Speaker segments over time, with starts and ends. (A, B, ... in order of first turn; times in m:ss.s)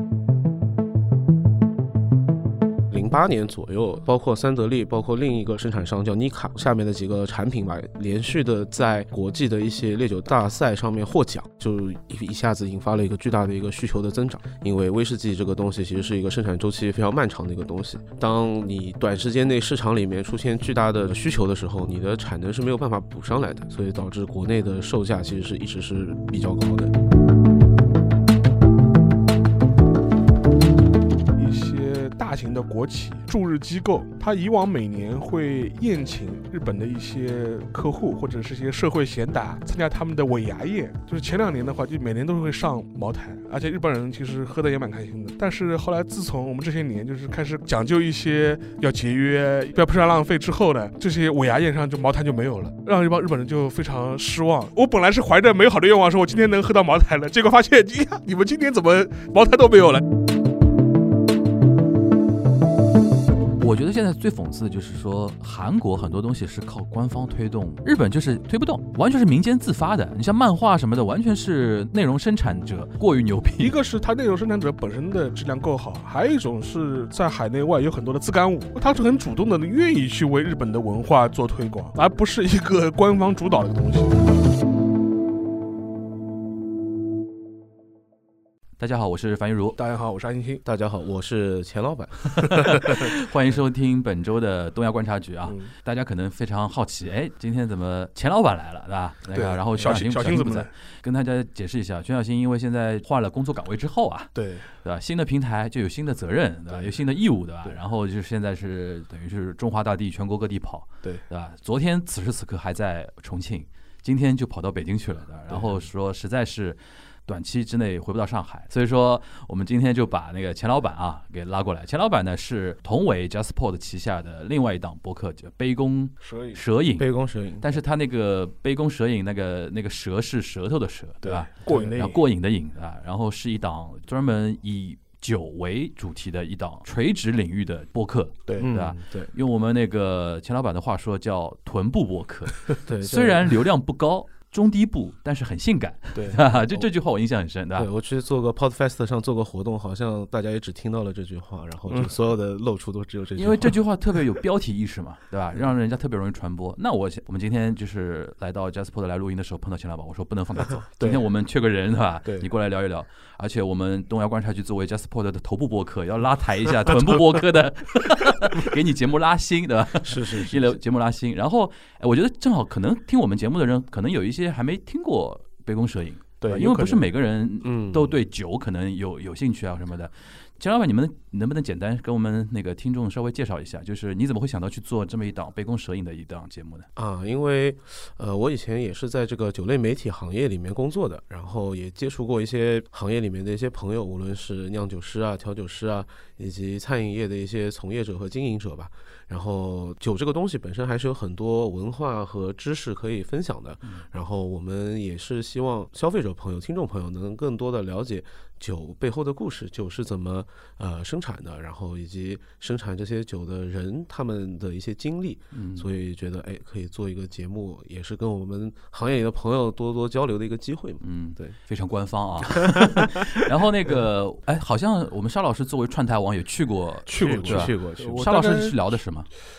0:02.9-0:26.9 A
0:31.4-1:00.0 B
1:03.6-1:13.7 C
1:13.6-1:24.2 B
1:28.8-1:29.8 C
1:29.8-1:30.6 B
1:30.6-1:32.2 A
1:32.4-1:44.3 C
1:35.5-1:35.7 B
1:39.3-1:40.7 B
1:44.4-1:44.7 B
1:44.8-2:07.1 C
2:06.2-2:06.6 B
2:07.0-2:07.8 A
2:07.6-2:27.9 C
2:11.2-2:12.2 B
2:11.7-2:12.0 A
2:18.6-2:19.3 A
2:22.9-2:23.5 A
2:26.2-2:26.5 B
2:27.8-2:33.8 A
2:33.4-3:06.9 C
2:50.0-2:50.8 A
2:56.4-2:57.0 B
2:57.6-2:58.2 A
3:07.0-3:41.6 A
3:35.5-3:35.9 C
3:41.0-3:49.3 C
3:42.4-3:43.2 A
3:47.1-3:48.9 B
3:47.1-3:48.3 A